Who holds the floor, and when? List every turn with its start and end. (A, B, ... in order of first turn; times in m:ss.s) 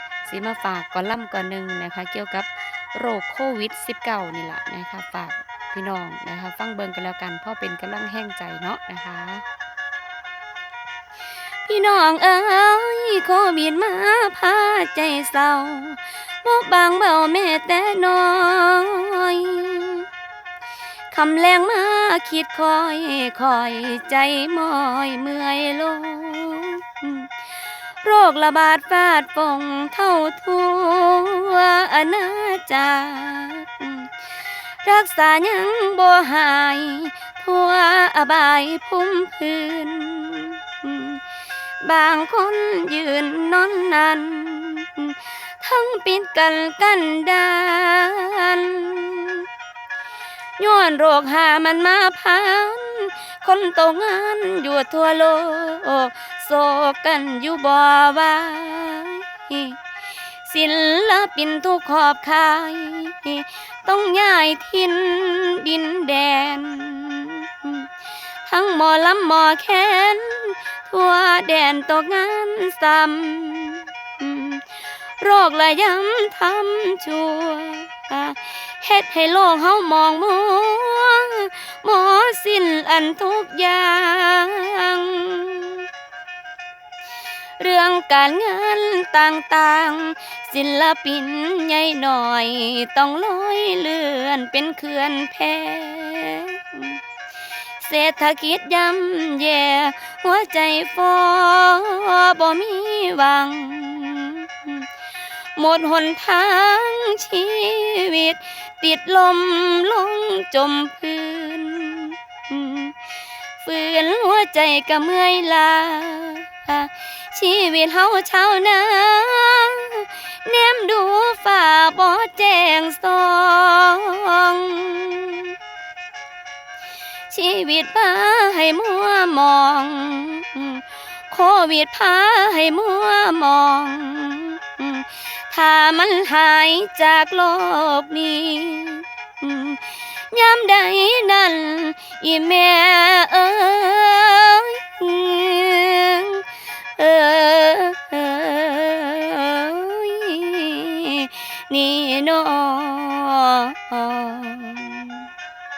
0:00.3-0:09.4 A
0:11.6-0:20.1 A
0:21.1-0:27.3 A
0:28.0-0:34.1 A
0:34.8-0:41.2 A
0:41.8-0:49.4 A
0:50.6-0:59.8 A
1:00.4-1:07.9 A
1:08.4-1:25.8 A
1:27.6-1:37.0 A
1:37.8-1:44.8 A
1:45.6-1:53.0 A
1:53.6-2:05.5 A
2:07.3-2:26.4 A
2:27.0-2:35.2 A